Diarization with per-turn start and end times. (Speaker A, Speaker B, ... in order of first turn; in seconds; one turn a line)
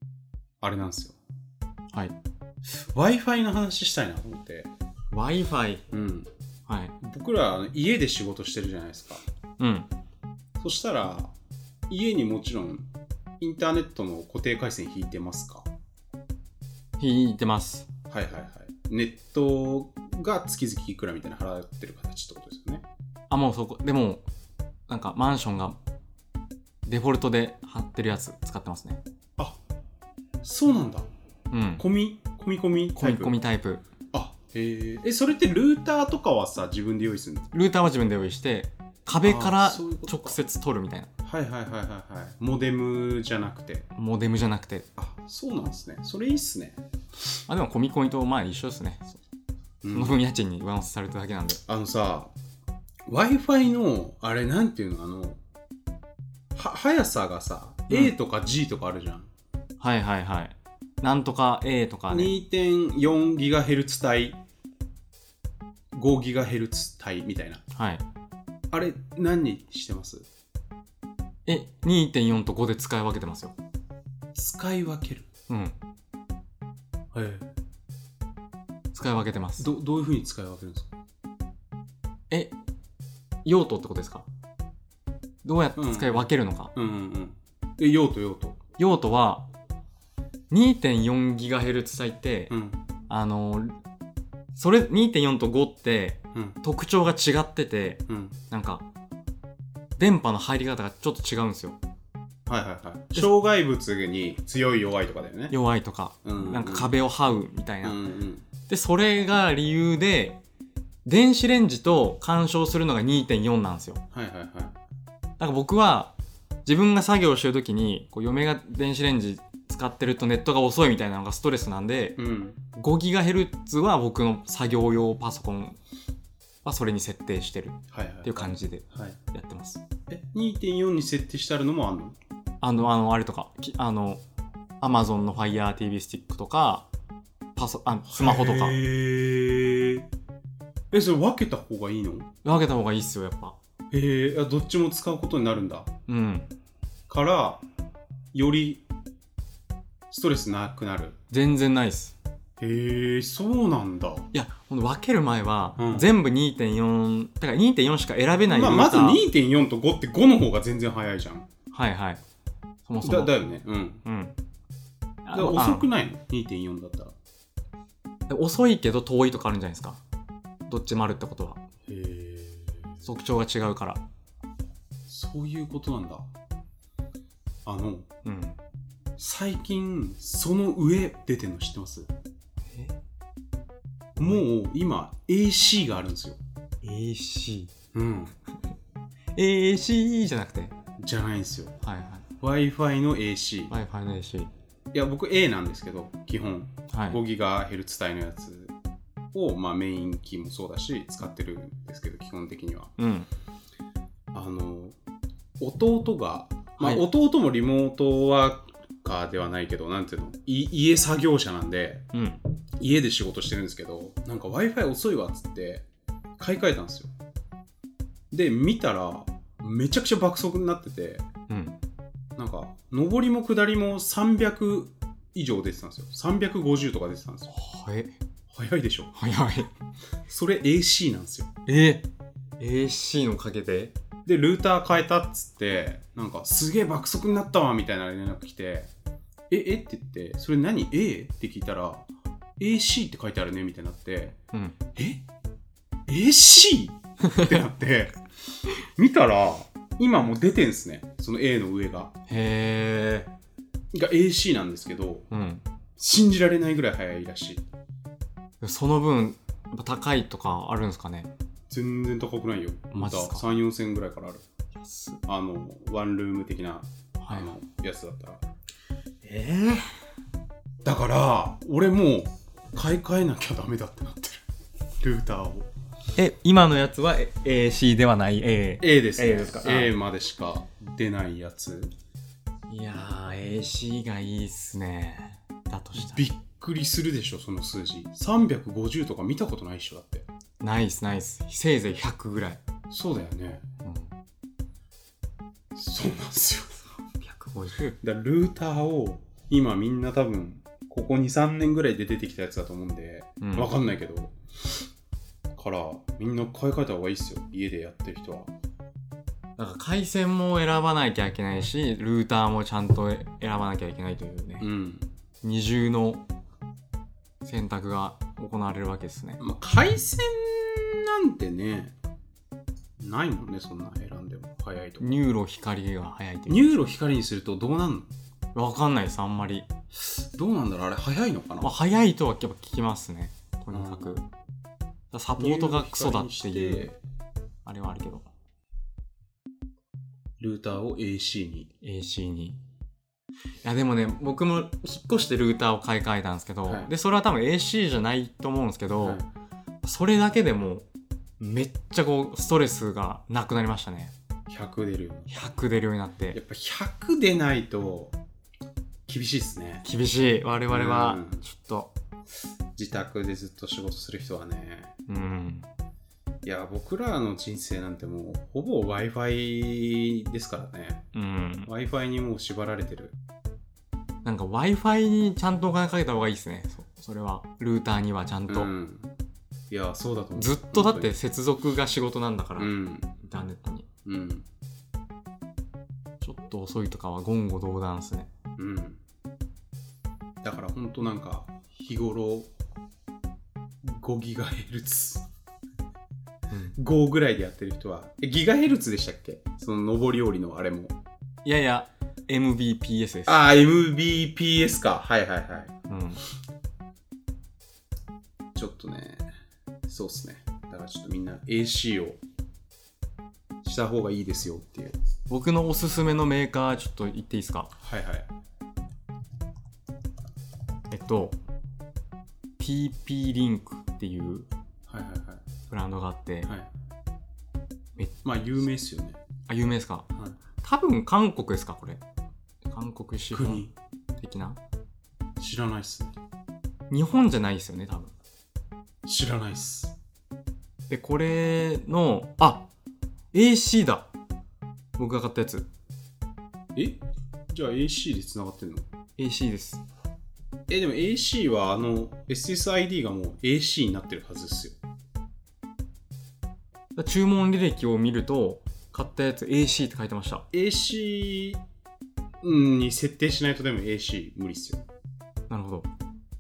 Speaker A: 0.6-1.2
Speaker A: 2.7-4.7
Speaker B: 5.1-5.8
Speaker A: 5.9-6.3
Speaker B: 6.7-6.9
Speaker A: 7.0-9.2
Speaker B: 9.6-9.9
Speaker A: 10.6-11.3
Speaker A: 11.9-12.9
Speaker A: 13.4-15.7
Speaker B: 17.0-17.9
Speaker A: 18.1-22.9
Speaker B: 23.3-24.2
Speaker B: 24.9-25.8
Speaker B: 26.9-29.0
Speaker A: 30.4-31.1
Speaker B: 31.5-31.8
Speaker A: 31.8-33.4
Speaker B: 33.0-33.8
Speaker A: 34.1-37.5
Speaker B: 37.5-41.1
Speaker A: 39.2-40.4
Speaker A: 41.2-43.9
Speaker B: 44.0-44.9
Speaker A: 45.0-46.8
Speaker B: 47.5-49.2
Speaker A: 49.8-50.2
Speaker B: 49.9-51.6
Speaker A: 51.7-52.3
Speaker A: 53.1-55.4
Speaker A: 56.5-59.3
Speaker B: 57.9-58.1
Speaker B: 59.8-62.3
Speaker A: 62.1-64.4
Speaker A: 66.0-67.6
Speaker B: 67.7-68.0
Speaker A: 68.7-70.3
Speaker B: 71.5-73.5
Speaker A: 74.3-75.3
Speaker B: 75.5-75.8
Speaker A: 77.1-77.5
Speaker B: 78.9-79.7
Speaker A: 79.6-80.9
Speaker B: 83.5-84.3
Speaker B: 85.4-86.7
Speaker A: 85.8-88.6
Speaker B: 88.8-89.5
Speaker B: 90.5-92.5
Speaker A: 92.5-92.8
Speaker B: 93.1-93.7
Speaker B: 94.5-98.8
Speaker A: 98.1-98.4
Speaker B: 100.0-101.8
Speaker A: 102.5-105.6
Speaker B: 105.5-108.0
Speaker A: 106.2-106.9
Speaker A: 107.8-108.5
Speaker B: 108.7-110.4
Speaker B: 111.1-114.0
Speaker A: 114.1-114.8
Speaker B: 115.4-116.1
Speaker B: 116.7-122.2
Speaker A: 122.2-122.6
Speaker B: 122.7-125.8
Speaker B: 126.7-129.8
Speaker A: 127.9-129.2
Speaker A: 130.1-132.2
Speaker B: 132.6-134.2
Speaker B: 134.8-136.9
Speaker B: 137.6-138.8
Speaker A: 138.1-140.1
Speaker A: 140.9-142.3
Speaker B: 142.4-143.6
Speaker A: 143.9-145.9
Speaker B: 146.1-146.5
Speaker A: 147.1-147.6
Speaker A: 148.3-148.8
Speaker A: 150.1-151.2
Speaker B: 151.3-152.2
Speaker A: 152.6-154.3
Speaker B: 154.3-159.2
Speaker A: 155.8-156.1
Speaker A: 158.5-161.5
Speaker B: 161.7-162.2
Speaker B: 162.9-163.3
Speaker A: 163.0-164.0
Speaker B: 164.1-164.4
Speaker B: 165.2-165.9
Speaker A: 165.3-167.2
Speaker B: 168.3-170.0
Speaker B: 170.7-171.6
Speaker A: 171.9-173.1
Speaker B: 173.0-174.0
Speaker A: 175.1-176.3
Speaker A: 177.7-178.1
Speaker B: 178.2-178.6
Speaker A: 179.2-182.1
Speaker B: 184.2-184.4
Speaker A: 184.2-186.4
Speaker B: 186.8-187.7
Speaker A: 187.9-188.3
Speaker B: 189.3-190.7
Speaker A: 191.0-191.7
Speaker B: 191.8-192.2
Speaker A: 192.4-193.8
Speaker B: 193.7-194.5
Speaker A: 194.9-198.7
Speaker B: 196.9-197.2
Speaker A: 199.3-202.9
Speaker B: 203.0-203.3
Speaker A: 204.3-205.0
Speaker A: 205.6-212.1
Speaker B: 206.8-207.1
Speaker B: 212.1-212.4
Speaker A: 212.8-215.8
Speaker A: 216.4-217.1
Speaker A: 218.3-221.2
Speaker B: 221.5-221.8
Speaker A: 222.4-227.5
Speaker B: 227.5-228.2
Speaker A: 228.5-229.1
Speaker B: 229.2-229.7
Speaker A: 230.3-231.5
Speaker B: 231.7-232.1
Speaker B: 232.6-233.9
Speaker A: 234.3-238.9
Speaker A: 239.5-244.4
Speaker A: 245.0-245.2
Speaker A: 246.1-248.2
Speaker B: 247.3-247.6
Speaker A: 248.8-252.1
Speaker B: 252.3-253.3
Speaker A: 253.9-255.3
Speaker B: 255.3-255.6
Speaker A: 256.0-257.6
Speaker B: 258.6-261.3
Speaker A: 261.7-264.4
Speaker B: 262.9-263.4
Speaker B: 264.8-265.2
Speaker A: 265.3-268.4
Speaker B: 267.2-267.5
Speaker B: 269.2-270.0
Speaker A: 270.8-274.4
Speaker A: 275.0-275.7
Speaker B: 276.2-279.9
Speaker A: 278.8-281.9
Speaker B: 282.7-286.3
Speaker A: 286.0-290.3
Speaker B: 290.6-292.6
Speaker A: 292.9-293.6
Speaker B: 293.8-294.1
Speaker A: 295.8-296.8
Speaker B: 297.1-297.9
Speaker A: 298.0-304.4
Speaker B: 303.4-303.7
Speaker A: 305.6-308.5
Speaker B: 309.6-314.7
Speaker A: 314.6-315.1
Speaker B: 315.4-316.2
Speaker B: 317.4-319.4
Speaker A: 319.4-321.9
Speaker A: 323.0-325.2
Speaker B: 325.0-326.7
Speaker A: 326.5-328.1
Speaker B: 328.6-329.7
Speaker A: 330.3-331.7
Speaker B: 331.6-334.2
Speaker A: 333.7-334.2
Speaker B: 335.1-336.9
Speaker A: 335.4-337.0
Speaker B: 337.6-338.3
Speaker A: 340.4-341.7
Speaker B: 341.8-342.6
Speaker B: 343.6-349.2
Speaker A: 346.7-346.9
Speaker A: 349.0-349.3
Speaker B: 349.8-350.9
Speaker B: 351.4-354.1
Speaker A: 354.5-355.3
Speaker B: 355.3-356.4
Speaker A: 356.3-358.2
Speaker A: 359.1-359.9
Speaker B: 359.8-361.9
Speaker A: 360.7-361.4
Speaker A: 362.8-364.9
Speaker B: 365.1-365.7
Speaker A: 366.4-371.0
Speaker B: 371.1-371.7
Speaker A: 371.7-373.2
Speaker B: 374.2-378.7
Speaker A: 378.5-379.1
Speaker A: 379.7-381.2
Speaker B: 380.4-383.9
Speaker A: 382.6-383.2
Speaker A: 384.1-384.5
Speaker B: 386.2-388.3
Speaker A: 388.6-389.0
Speaker A: 390.4-392.5
Speaker A: 393.8-395.3
Speaker B: 396.5-396.8
Speaker A: 396.8-400.9
Speaker B: 401.4-403.4
Speaker A: 403.3-405.7
Speaker B: 405.9-406.2
Speaker A: 408.6-409.3
Speaker A: 409.9-412.2
Speaker A: 413.6-415.0
Speaker B: 415.3-417.7
Speaker A: 417.8-418.3
Speaker B: 420.9-421.4
Speaker B: 422.6-424.5
Speaker A: 424.9-425.4
Speaker B: 425.7-426.5
Speaker A: 428.2-429.2
Speaker B: 429.5-430.1
Speaker B: 430.6-432.0
Speaker B: 432.7-433.7
Speaker A: 433.3-433.7
Speaker B: 434.2-434.6
Speaker A: 435.4-436.1
Speaker B: 436.9-438.1
Speaker A: 439.1-440.0
Speaker B: 440.9-442.7
Speaker B: 443.3-444.1
Speaker B: 445.0-445.7
Speaker A: 446.8-448.9
Speaker B: 449.2-449.8
Speaker A: 450.7-454.8
Speaker B: 457.0-460.4
Speaker A: 460.5-461.6
Speaker A: 462.4-464.9
Speaker B: 465.5-465.9